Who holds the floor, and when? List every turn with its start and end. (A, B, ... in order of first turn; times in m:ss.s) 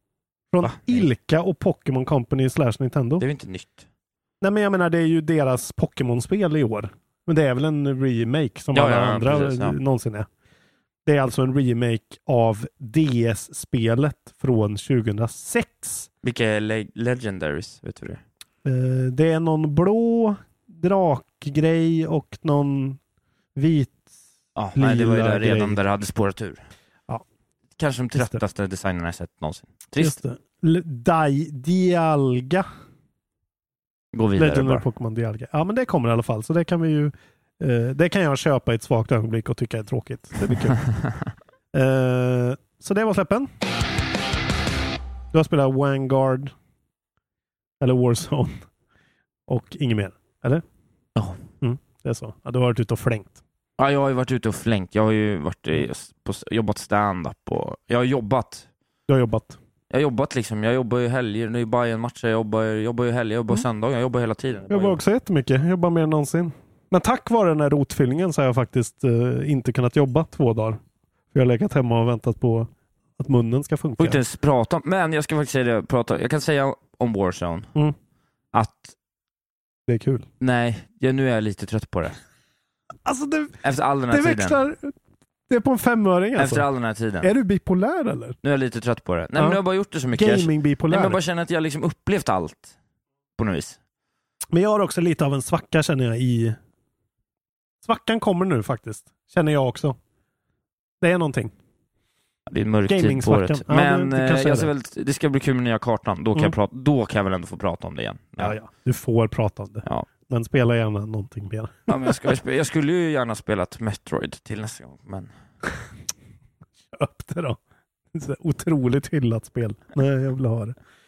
0:00.5-0:03.2 A
0:00.6-0:01.1 B
0:03.2-0:03.8 B
0:04.4-0:10.3 A
0:08.7-0:09.8 B
0:11.1-0:16.1 A
0:16.2-0:18.2 B
0:18.6-0:23.0 A
0:23.6-0:24.1 A
0:24.6-0:26.6 B
0:24.8-0:25.8 A
0:27.8-0:30.2 B
0:30.0-0:32.7 A
0:34.1-0:34.8 B
0:34.4-0:40.8 A
0:41.7-0:43.5 A
0:45.3-0:46.5 A
0:47.8-0:48.6 A
0:49.5-0:50.6 A
0:51.6-0:53.4 A
0:53.8-0:58.7 B
0:59.1-0:59.6 A
0:59.9-1:05.0 B
1:04.7-1:10.8 A
1:11.3-1:14.2 A
1:14.0-1:17.7 B
1:18.5-1:18.9 B
1:19.9-1:20.3 A
1:20.4-1:22.2 B
1:23.0-1:23.6 A
1:23.6-1:24.6 B
1:24.1-1:24.9 A
1:25.5-1:26.7 A
1:26.4-1:27.3 B
1:27.2-1:28.4 A
1:28.4-1:32.7 B
1:30.1-1:31.2 A
1:33.4-1:33.8 B
1:34.5-1:36.6 A
1:37.8-1:40.0 A
1:41.0-1:41.5 A
1:42.5-1:48.6 B
1:42.9-1:44.7 A
1:48.4-1:52.2 A
1:51.9-1:55.3 B
1:56.9-1:57.6 A
1:58.1-2:00.8 A